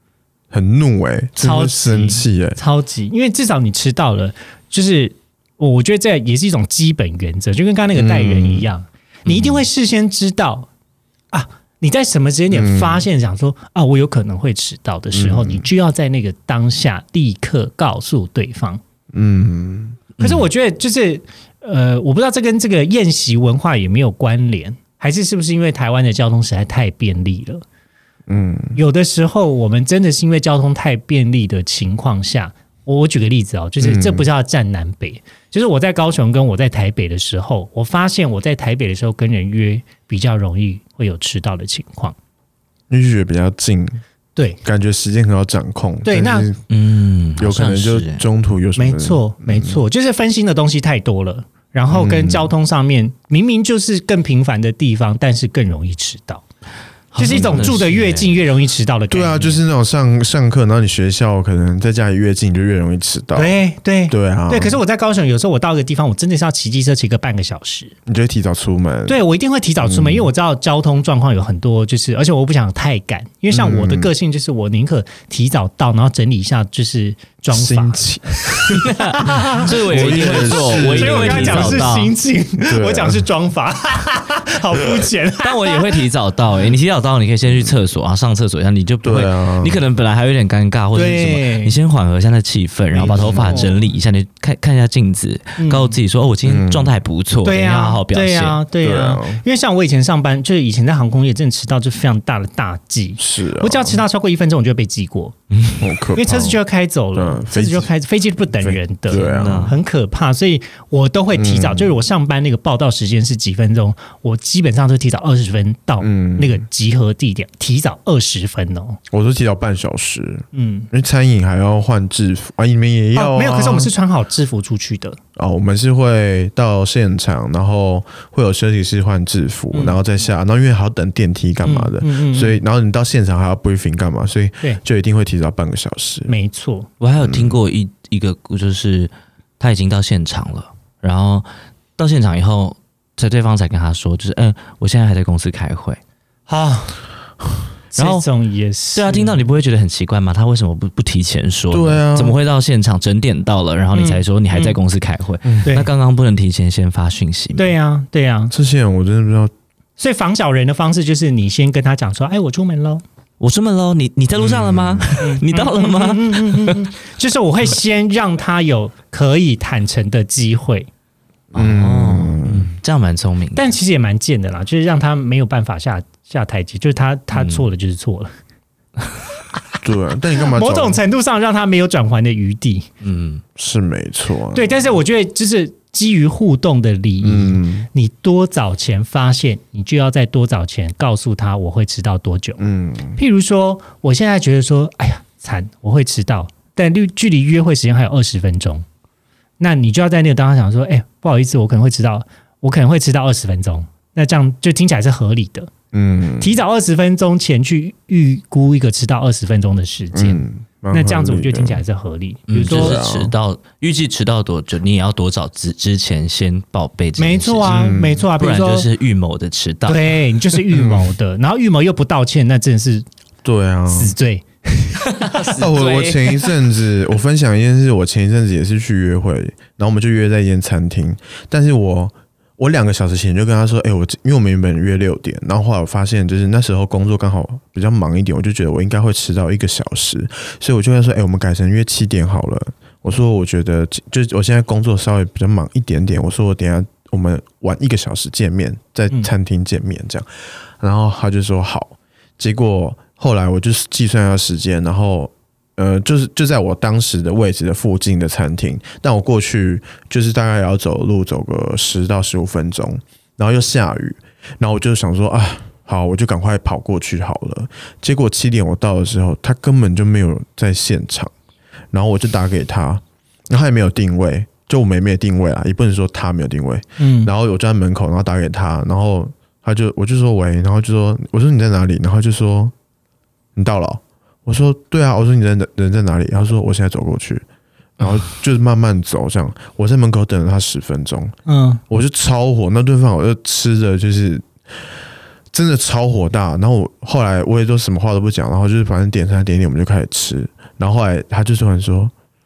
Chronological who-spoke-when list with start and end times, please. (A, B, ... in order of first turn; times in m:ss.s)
0:00.5-0:02.6 A
0:01.4-0:10.7 B
0:08.0-0:08.7 A
0:09.3-0:09.5 C
0:11.3-0:18.8 B
0:12.5-0:13.0 A
0:15.1-0:15.6 A
0:19.1-0:20.1 A
0:20.2-0:27.6 B
0:20.2-0:20.4 C
0:28.3-0:28.8 A
0:28.7-0:42.1 B
0:33.8-0:34.2 A
0:42.9-0:44.0 A
0:44.4-0:44.6 B
0:44.6-0:46.6 A
0:46.0-0:46.5 B
0:46.7-0:48.2 C
0:47.4-0:49.8 A
0:48.8-0:56.4 B
0:51.9-0:52.5 A
0:57.1-0:58.4 C
0:57.2-0:59.6 B
0:59.1-1:03.5 A
1:03.3-1:07.9 B
1:04.1-1:04.8 A
1:08.0-1:09.2 A
1:09.0-1:26.0 B
1:09.8-1:10.3 A
1:13.5-1:14.1 A
1:17.5-1:22.0 A
1:19.0-1:22.1 C
1:22.7-1:23.2 A
1:25.4-1:38.6 C
1:29.0-1:29.8 A
1:30.9-1:31.7 B
1:32.9-1:33.7 B
1:33.0-1:33.7 A
1:35.6-1:35.9 B
1:36.4-1:36.9 A
1:37.4-1:45.4 B
1:38.8-1:39.4 A
1:43.2-1:44.0 A
1:45.5-1:45.8 C
1:45.8-1:46.6 A
1:46.1-1:59.0 B
1:47.1-1:47.9 A
1:48.6-1:49.7 A
1:49.1-1:49.8 C
1:51.3-1:52.0 A
1:56.0-1:56.6 A
1:59.1-2:03.9 A
2:00.5-2:00.9 B
2:03.1-2:05.2 B
2:05.4-2:16.3 A
2:09.7-2:10.0 B
2:11.6-2:12.6 B
2:16.3-2:16.9 B
2:17.0-2:26.0 C
2:17.2-2:17.6 A
2:26.5-2:27.0 B
2:27.9-2:29.4 B
2:28.0-2:28.2 C
2:28.9-2:37.7 C
2:31.7-2:32.4 A
2:33.9-2:34.7 B
2:37.6-2:38.5 B
2:38.5-2:39.5 A
2:40.0-2:43.0 B
2:43.4-2:46.8 C
2:44.4-2:45.1 A
2:45.2-2:50.9 B
2:51.5-2:53.7 C
2:51.5-2:52.7 A
2:53.5-2:58.3 B
2:57.3-2:57.6 C
2:59.8-3:01.0 A
3:00.4-3:02.9 B
3:03.0-3:03.4 C
3:03.6-3:04.7 A
3:04.5-3:12.6 B
3:07.2-3:07.9 A
3:12.6-3:13.2 A
3:13.2-3:18.8 B
3:19.6-3:25.7 B
3:25.9-3:26.5 A
3:26.4-3:33.0 B
3:30.1-3:31.8 A
3:32.5-3:40.2 C
3:32.6-3:33.3 A
3:37.2-3:38.9 B
3:37.6-3:38.2 A
3:39.9-3:43.0 B
3:40.7-3:41.1 A
3:43.4-3:44.1 A
3:43.9-3:45.4 B
3:45.1-3:46.5 C
3:45.6-4:10.3 A
4:10.8-4:31.3 A
4:31.9-4:42.7 A
4:37.0-4:37.3 B
4:43.6-4:47.4 A
4:48.0-4:51.3 A
4:51.4-4:51.8 B
4:51.9-4:54.5 A
4:55.5-5:02.1 A